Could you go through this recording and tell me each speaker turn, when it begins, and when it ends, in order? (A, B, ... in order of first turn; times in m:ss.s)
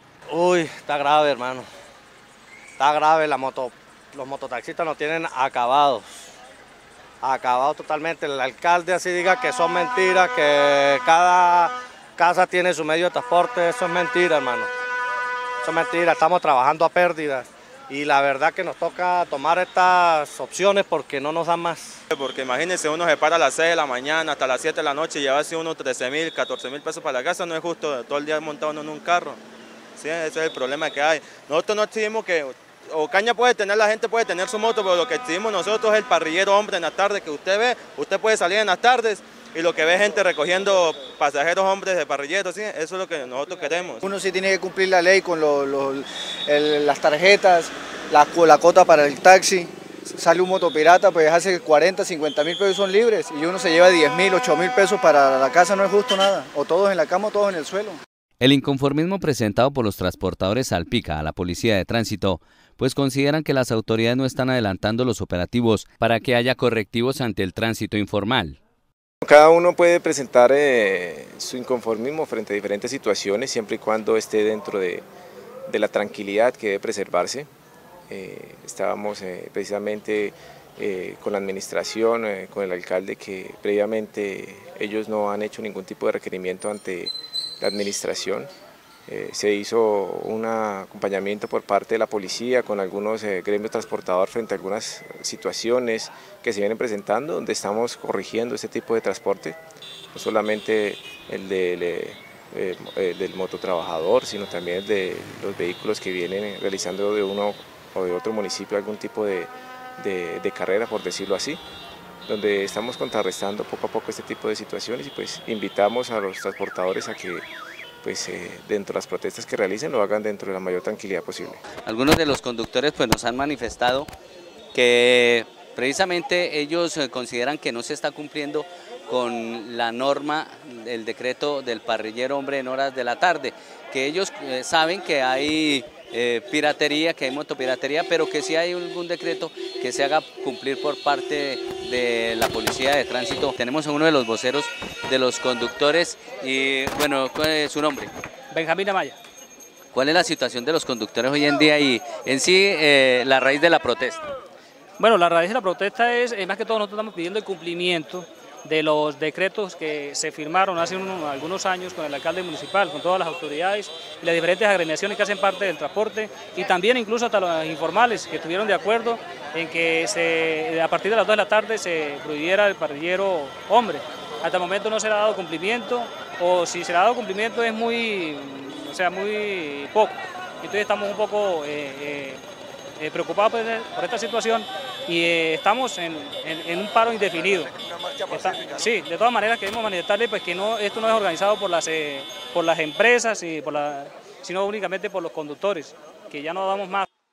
0:00.3-0:01.7 A
0:02.8-0:06.3 A
0:07.2-0:14.7 A
0:15.6-0:22.0 A
0:22.1-0:29.4 B
0:30.0-0:44.0 B
0:44.1-0:58.0 C
0:58.4-1:08.6 D
1:09.2-1:15.0 E
1:15.7-1:17.5 E
1:18.1-1:28.5 E
1:29.1-1:39.6 E
1:40.1-1:51.6 E
1:52.3-1:57.4 E
1:58.0-2:01.6 E
2:01.8-2:04.1 D
2:04.7-2:28.1 D
2:28.5-2:29.2 F
2:29.9-2:34.2 D
2:35.0-3:02.4 F
3:03.0-3:17.1 F